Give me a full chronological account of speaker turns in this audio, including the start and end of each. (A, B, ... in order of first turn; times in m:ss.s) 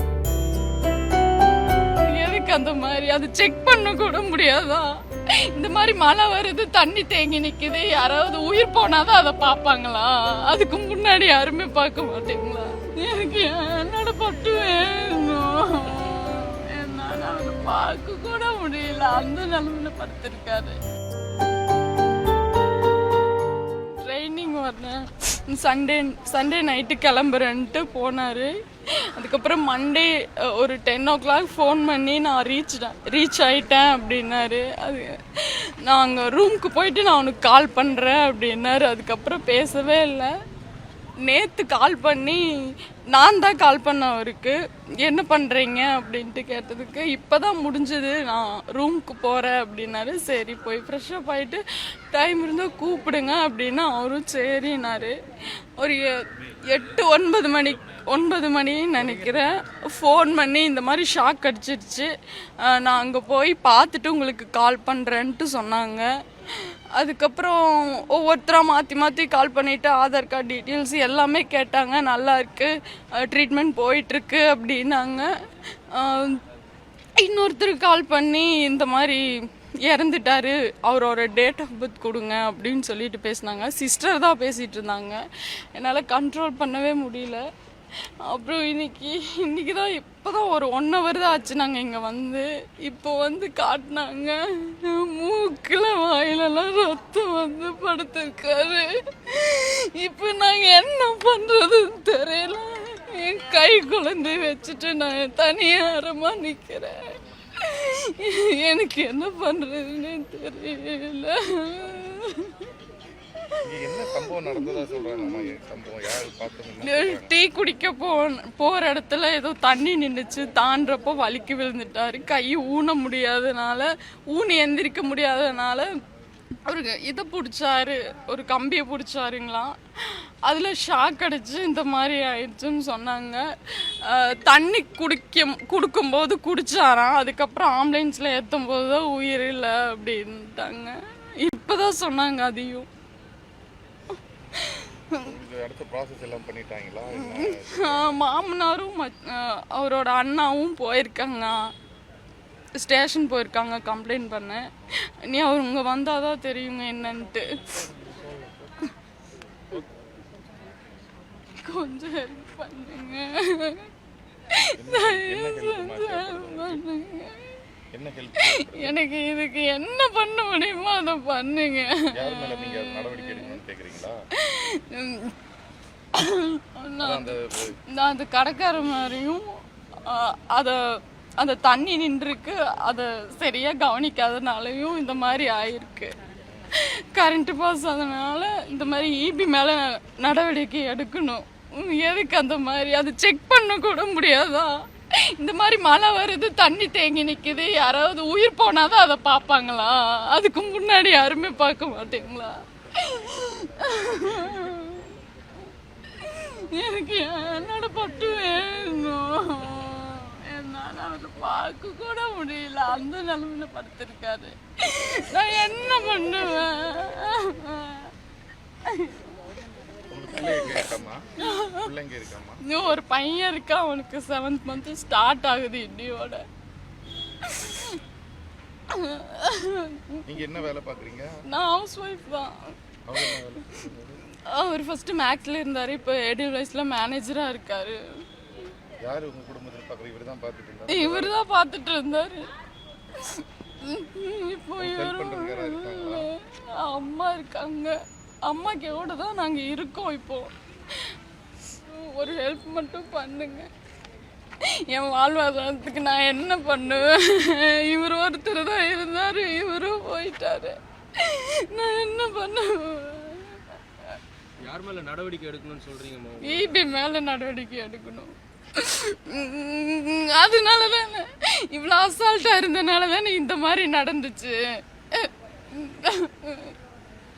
0:01.9-0:20.8 A
0:24.0-0:28.5 A
0:29.1-0:40.3 A
0:41.2-0:55.2 A
0:55.8-1:02.1 A
1:02.6-1:15.3 A
1:15.9-1:16.4 A
1:17.2-1:19.2 A
1:19.8-1:25.2 A
1:25.7-1:27.4 A
1:28.2-1:52.7 A
1:53.6-1:57.3 B
1:54.1-1:55.6 A
1:56.8-2:05.9 A
2:06.6-2:22.9 A
2:24.6-2:25.3 A
2:25.2-2:28.2 B
2:27.1-2:31.7 A
2:32.8-2:37.9 A
2:41.6-2:43.9 A
2:44.5-2:47.6 A
2:44.8-2:46.8 B
2:47.9-2:49.0 B
2:48.4-2:53.6 A
2:52.1-2:54.2 B
2:54.4-2:55.4 A
2:56.1-3:00.8 A
2:57.0-2:57.8 B
3:01.4-3:06.2 A
3:06.7-3:25.2 A
3:26.1-3:38.1 A
3:38.8-3:39.3 A
3:40.1-3:42.6 B
3:40.4-3:40.9 A
3:41.4-3:41.9 A
3:42.6-3:46.4 A
3:47.4-3:48.0 A
3:48.9-3:50.5 A
3:50.3-3:51.3 B
3:51.5-3:53.5 A
3:53.1-3:54.2 B
3:54.4-3:58.0 A
3:59.0-4:01.3 B
4:00.9-4:02.5 A
4:03.1-4:11.1 A
4:04.8-4:06.3 B
4:11.8-4:13.7 A
4:14.6-4:23.6 A
4:24.6-4:26.9 C
4:26.4-4:34.6 A
4:35.1-4:36.7 A